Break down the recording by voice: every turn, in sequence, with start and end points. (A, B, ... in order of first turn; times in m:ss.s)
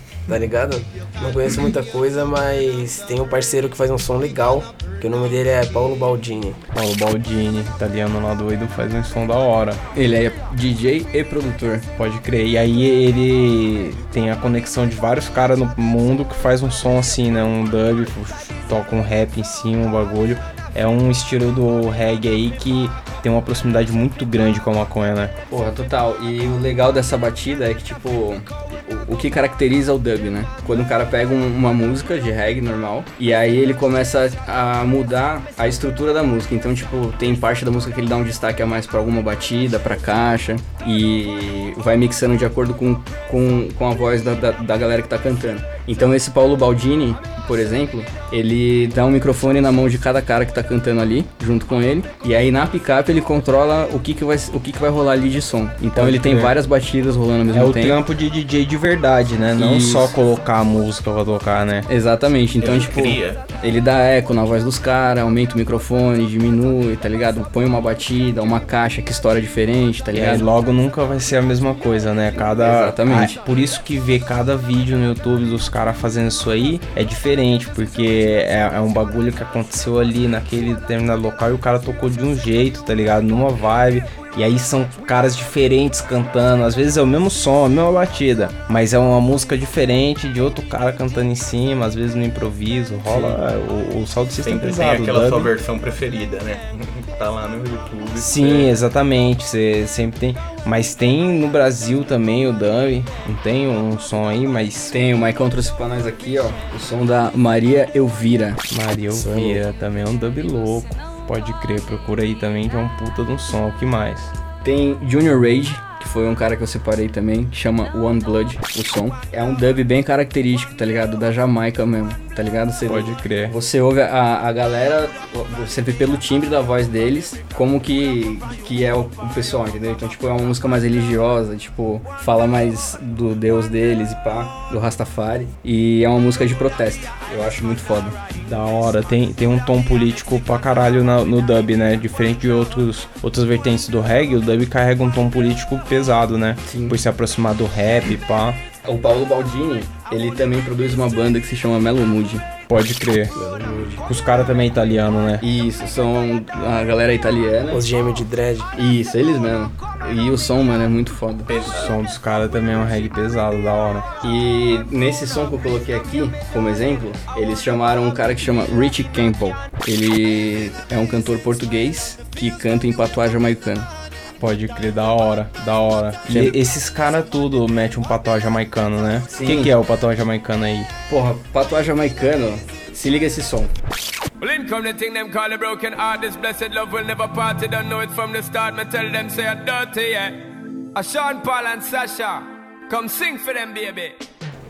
0:00.3-0:06.6 A
0:06.7-0:09.8 B
0:09.9-0:11.9 C
0:12.0-0:25.4 B
0:25.5-0:58.0 C
0:56.0-0:56.6 B
0:57.5-1:01.9 B
0:59.6-1:00.2 C
1:01.9-1:10.5 C
1:02.6-1:03.4 D
1:10.1-1:35.5 B
1:12.6-1:13.4 C
1:33.1-1:33.4 D
1:34.4-1:38.7 D
1:38.2-1:45.0 B
1:44.9-1:48.6 C
1:48.7-1:54.3 B
1:49.1-1:49.6 A
1:54.6-2:18.2 C
2:02.9-2:03.6 B
2:18.4-2:28.6 B
2:26.6-2:27.0 C
2:28.8-2:32.4 C
2:32.7-2:33.4 B
2:33.4-2:34.0 A
2:34.0-2:35.4 B
2:35.4-2:37.9 C
2:37.7-2:38.7 A
2:38.7-2:41.5 C
2:41.5-2:42.0 D
2:41.6-2:44.1 B
2:44.2-2:53.9 C
2:54.4-3:00.9 B
2:56.3-2:56.6 C
2:59.3-2:59.7 C
3:01.1-3:03.7 C
3:04.4-3:10.4 E
3:10.9-3:14.2 E